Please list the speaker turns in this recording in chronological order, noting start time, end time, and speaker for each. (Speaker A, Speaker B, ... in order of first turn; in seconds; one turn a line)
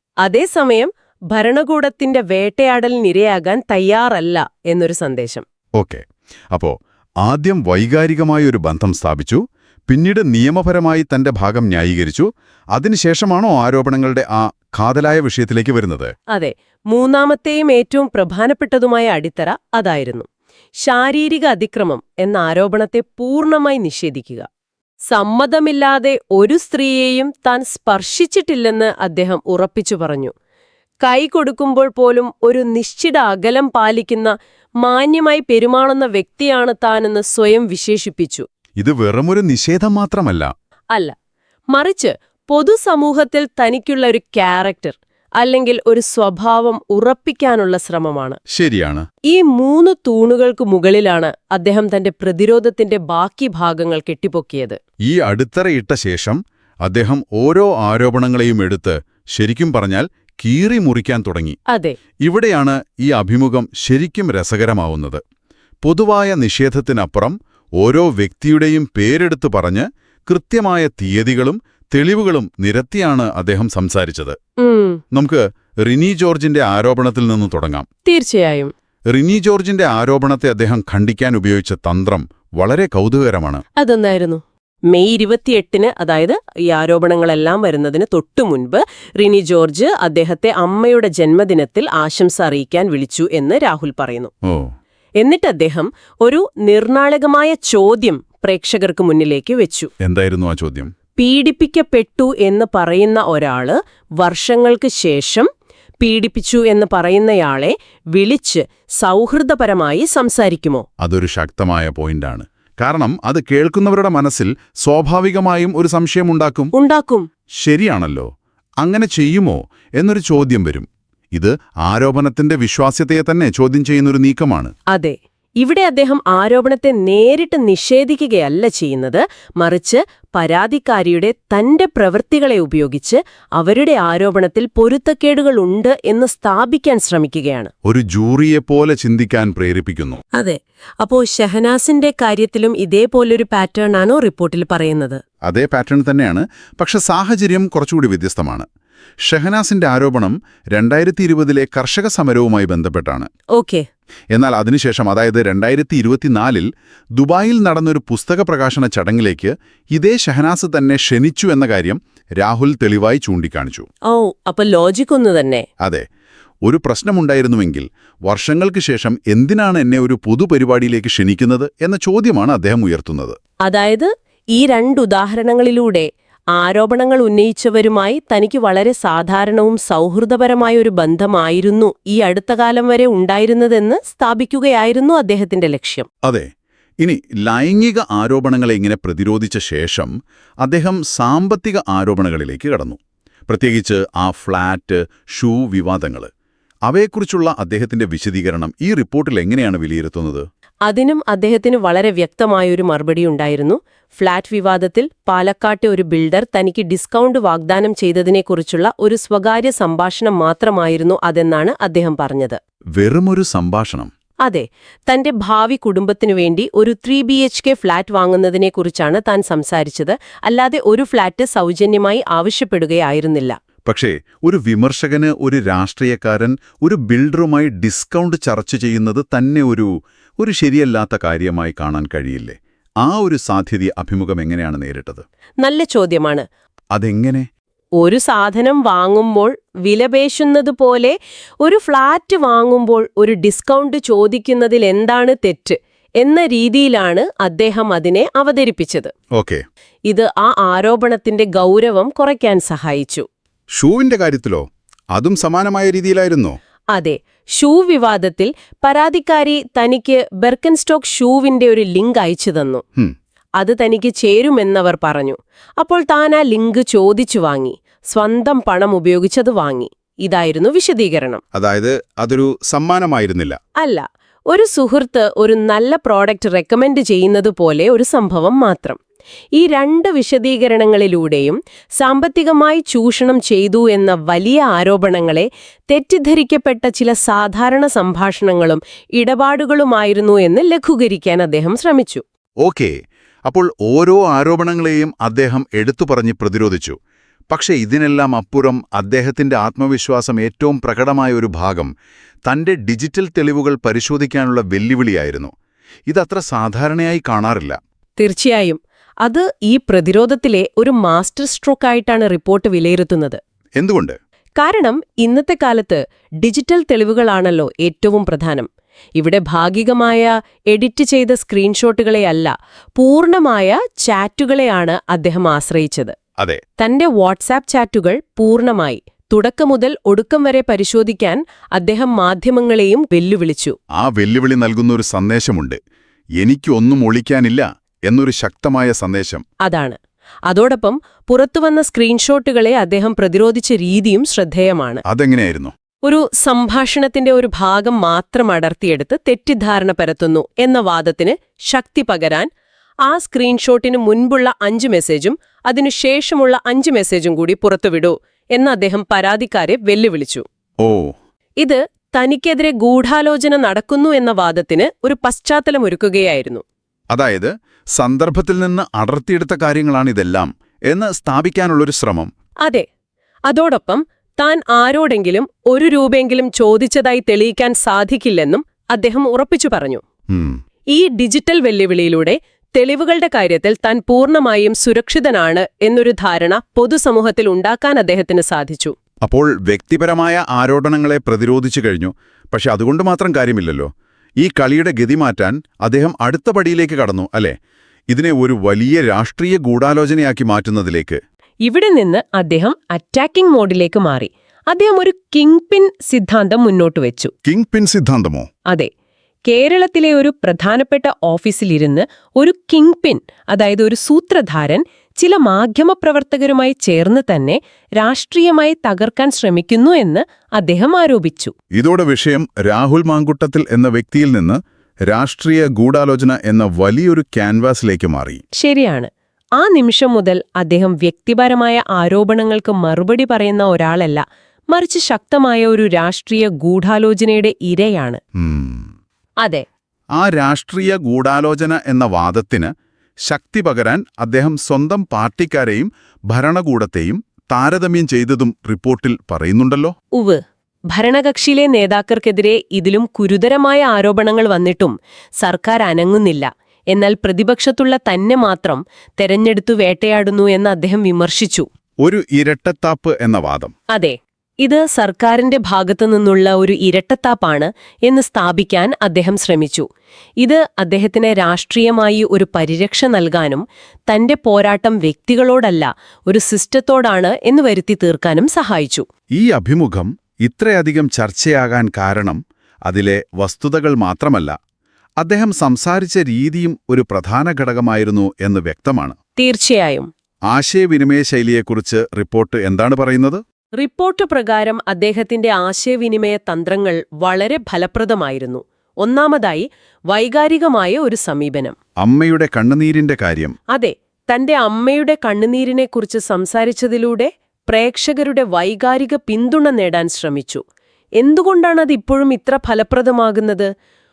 Speaker A: 0.2-5.5
Speaker B: 5.8-16.1
Speaker A: 16.3-20.3
Speaker A: 20.8-24.5
Speaker A: 25.1-30.3
Speaker A: 31.0-38.5
Speaker B: 38.8-40.5
Speaker A: 41.7-48.4
Speaker B: 48.5-49.1
Speaker A: 49.3-54.8
Speaker B: 55.0-61.6
Speaker A: 61.7-62.0
Speaker B: 62.2-65.2
Speaker B: 65.8-74.4
Speaker A: 74.6-75.0
Speaker B: 75.1-77.9
Speaker A: 78.1-78.7
Speaker B: 79.1-83.6
Speaker A: 83.8-94.3
Speaker B: 94.4-94.7
Speaker A: 95.2-99.9
Speaker B: 100.0-100.9
Speaker A: 101.2-105.5
Speaker A: 106.0-110.8
Speaker B: 111.0-116.7
Speaker A: 116.7-117.3
Speaker B: 117.6-118.3
Speaker B: 118.8-124.7
Speaker A: 124.9-137.7
Speaker B: 137.8-140.2
Speaker A: 140.3-145.2
Speaker B: 145.4-148.7
Speaker B: 149.2-153.3
Speaker A: 153.5-153.9
Speaker B: 154.3-163.9
Speaker A: 164.1-165.7
Speaker B: 165.8-166.1
Speaker B: 166.7-173.4
Speaker A: 173.7-186.1
Speaker B: 186.2-186.5
Speaker B: 187.0-190.1
Speaker B: 190.6-196.3
Speaker B: 196.9-200.5
Speaker A: 200.9-212.6
Speaker B: 213.0-214.1
Speaker A: 214.4-223.6
Speaker B: 223.9-235.2
Speaker A: 235.6-236.5
Speaker B: 236.9-237.5
Speaker A: 238.0-249.1
Speaker B: 249.4-249.6
Speaker A: 250.1-253.3
Speaker B: 253.8-256.6
Speaker A: 256.9-262.8
Speaker A: 263.6-271.4
Speaker B: 271.5-273.6
Speaker A: 273.8-279.0
Speaker A: 279.6-292.2
Speaker B: 292.6-292.9
Speaker B: 293.5-297.0
Speaker B: 297.5-301.9
Speaker B: 302.5-305.5
Speaker B: 306.1-307.8
Speaker A: 308.2-313.4
Speaker B: 313.8-314.2
Speaker A: 314.6-326.1
Speaker A: 326.8-333.8
Speaker B: 334.0-335.8
Speaker B: 336.4-339.4
Speaker A: 339.6-345.0
Speaker B: 345.1-345.7
Speaker A: 346.0-352.5
Speaker A: 353.1-360.4
Speaker B: 360.8-361.2
Speaker A: 361.6-366.6
Speaker B: 367.1-372.3
Speaker A: 373.5-380.0
Speaker B: 380.3-380.6
Speaker A: 380.9-388.9
Speaker B: 389.2-397.6
Speaker B: 398.1-401.2
Speaker A: 401.6-407.3
Speaker B: 407.4-408.5
Speaker A: 409.5-421.5
Speaker B: 421.7-428.4
Speaker A: 428.5-438.2
Speaker B: 438.4-438.9
Speaker B: 440.2-442.7
Speaker B: 443.3-449.9
Speaker A: 450.1-461.7
Speaker B: 462.0-463.7
Speaker A: 463.9-469.9
Speaker A: 470.4-479.1
Speaker B: 479.4-484.6
Speaker B: 485.2-489.2
Speaker A: 489.4-490.1
Speaker B: 490.5-493.4
Speaker A: 493.8-501.8
Speaker B: 502.0-503.6
Speaker A: 503.7-510.6
Speaker A: 511.2-513.7